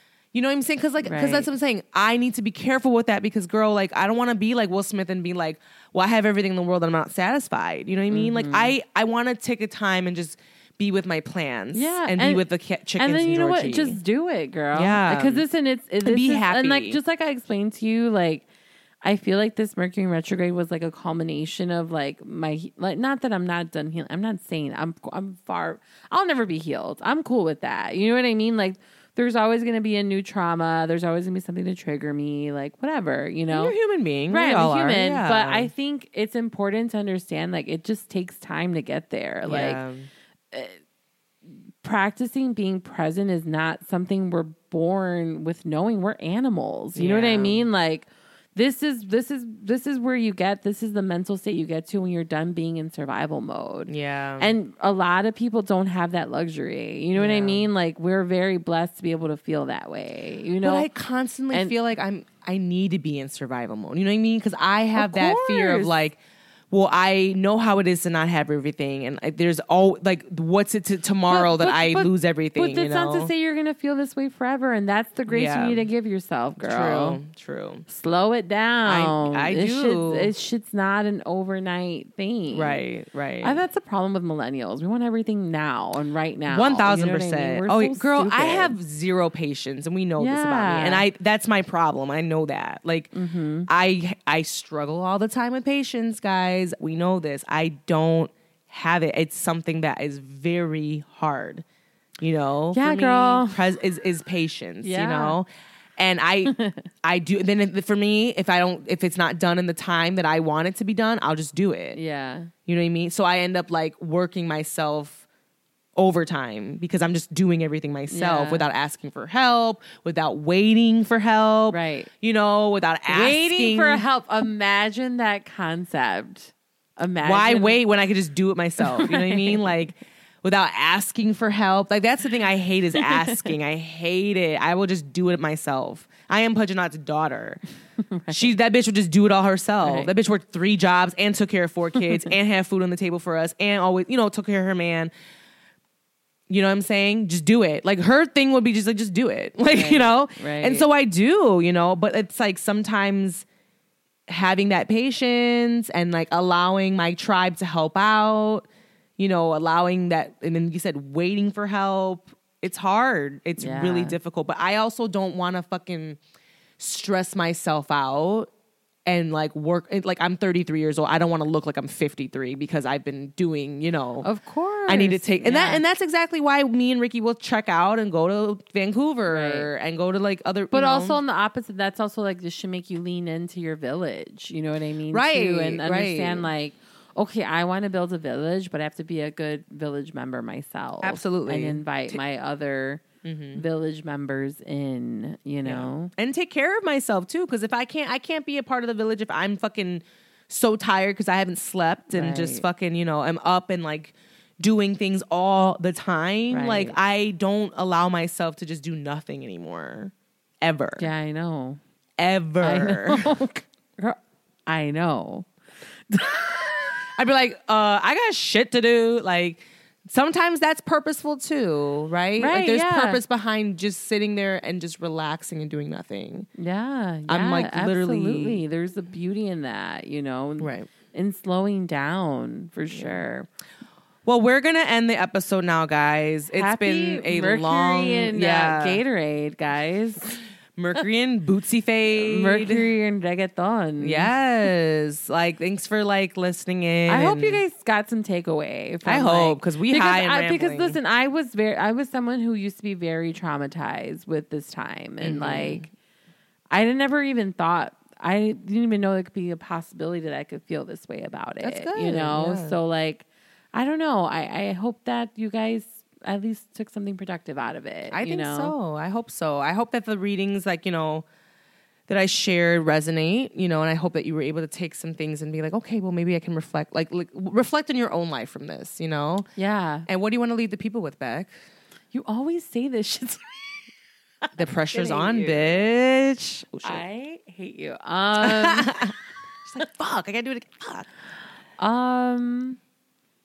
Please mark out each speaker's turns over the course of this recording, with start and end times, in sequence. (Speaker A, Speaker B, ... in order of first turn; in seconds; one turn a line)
Speaker A: 0.3-14.0
Speaker B: 1.0-1.5
Speaker B: 8.1-8.7
Speaker B: 11.7-12.4
Speaker B: 13.0-18.4
Speaker A: 14.7-15.4
Speaker A: 16.0-17.0
Speaker B: 19.0-33.7
Speaker A: 33.5-35.7
Speaker B: 34.3-39.8
Speaker A: 39.5-40.1
Speaker B: 40.5-40.8
Speaker B: 41.8-60.9
Speaker A: 47.0-47.7
Speaker A: 53.9-54.5
Speaker A: 57.1-57.7
Speaker A: 60.6-66.2
Speaker B: 65.0-66.0
Speaker A: 66.7-73.3
Speaker B: 71.3-77.2
Speaker A: 75.3-75.9
Speaker A: 76.6-77.8
Speaker B: 77.9-82.8
Speaker A: 78.9-80.3
Speaker A: 82.5-83.6
Speaker B: 83.4-88.8
Speaker A: 86.5-93.1
Speaker B: 90.2-91.1
Speaker B: 93.1-93.7
Speaker A: 93.7-101.6
Speaker A: 102.2-112.0
Speaker B: 102.7-103.6
Speaker B: 104.8-105.4
Speaker B: 106.5-106.9
Speaker B: 112.0-112.5
Speaker A: 112.7-115.2
Speaker A: 116.0-124.0
Speaker B: 118.1-118.7
Speaker B: 121.7-122.1
Speaker B: 123.1-127.8
Speaker A: 127.2-137.6
Speaker B: 128.8-129.6
Speaker B: 138.1-138.5
Speaker A: 138.3-145.1
Speaker B: 139.8-140.1
Speaker A: 146.5-153.4
Speaker B: 149.7-150.8
Speaker A: 154.3-158.7
Speaker A: 159.2-166.2
Speaker B: 163.6-164.2
Speaker A: 166.8-168.5
Speaker A: 169.1-174.3
Speaker B: 174.2-175.8
Speaker A: 174.9-181.2
Speaker B: 179.3-179.7
Speaker B: 180.7-196.1
Speaker A: 185.1-186.5
Speaker A: 191.0-192.2
Speaker A: 193.2-193.6
Speaker A: 195.6-211.1
Speaker B: 202.1-202.6
Speaker B: 206.5-207.0
Speaker B: 211.0-211.8
Speaker A: 212.2-213.2
Speaker B: 212.6-215.5
Speaker B: 216.1-216.9
Speaker A: 217.2-226.5
Speaker B: 222.4-223.2
Speaker B: 226.6-233.5
Speaker A: 227.3-228.6
Speaker A: 230.6-230.9
Speaker A: 232.9-233.2
Speaker A: 234.2-239.0
Speaker B: 236.5-240.4
Speaker A: 240.8-242.9
Speaker B: 242.1-244.3
Speaker A: 244.0-247.6
Speaker B: 247.1-255.9
Speaker A: 249.0-251.0
Speaker A: 255.2-255.9
Speaker B: 256.7-268.7
Speaker A: 261.6-262.8
Speaker A: 268.1-271.3
Speaker A: 272.1-279.5
Speaker B: 279.6-280.1
Speaker A: 280.1-281.5
Speaker B: 282.1-283.4
Speaker A: 284.6-287.0
Speaker B: 284.9-285.8
Speaker B: 286.8-288.9
Speaker A: 288.4-289.1
Speaker A: 289.7-291.1
Speaker B: 291.8-292.8